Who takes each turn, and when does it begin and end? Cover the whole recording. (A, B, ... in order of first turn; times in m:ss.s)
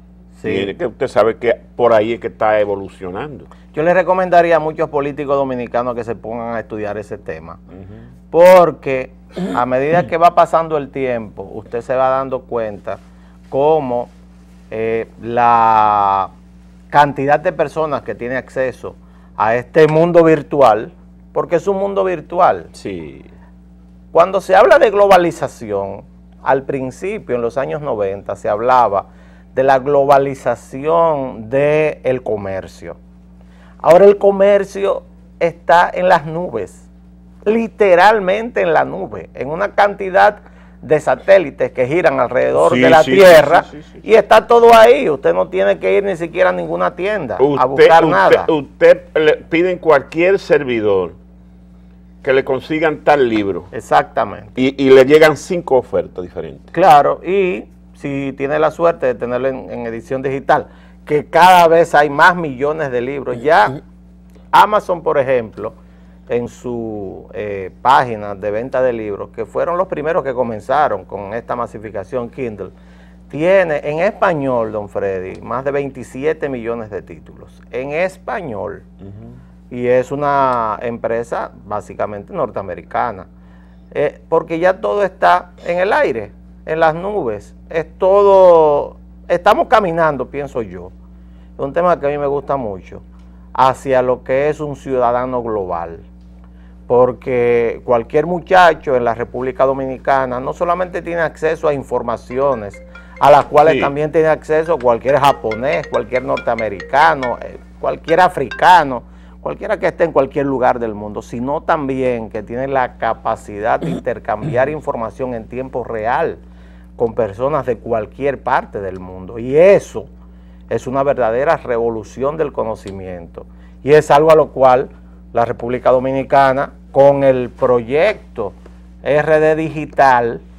0:00.4-0:00.7 A
0:00.4-0:03.5 B
0:03.7-0:07.6 A
0:08.3-0:14.1 A
0:14.7-0:16.3 A
0:16.9-0:22.7 A
0:22.7-0:23.3 B
0:24.1-0:33.0 A
0:33.8-0:36.9 A
0:37.4-0:48.5 A
0:42.5-0:44.0 B
0:47.4-0:51.2 B
0:52.2-0:53.7 B
0:53.7-0:54.6 A
0:54.6-0:56.7 B
0:56.7-1:03.8 A
1:04.5-1:05.8 A
1:06.3-1:12.7 A
1:13.3-1:18.9 A
1:19.0-1:19.3 B
1:19.7-1:23.3 A
1:23.9-1:30.9 A
1:31.6-1:33.0 A
1:33.6-1:36.0 A
1:36.9-1:56.4 A
1:43.6-1:43.9 B
1:57.0-2:00.1 A
2:00.7-2:10.4 A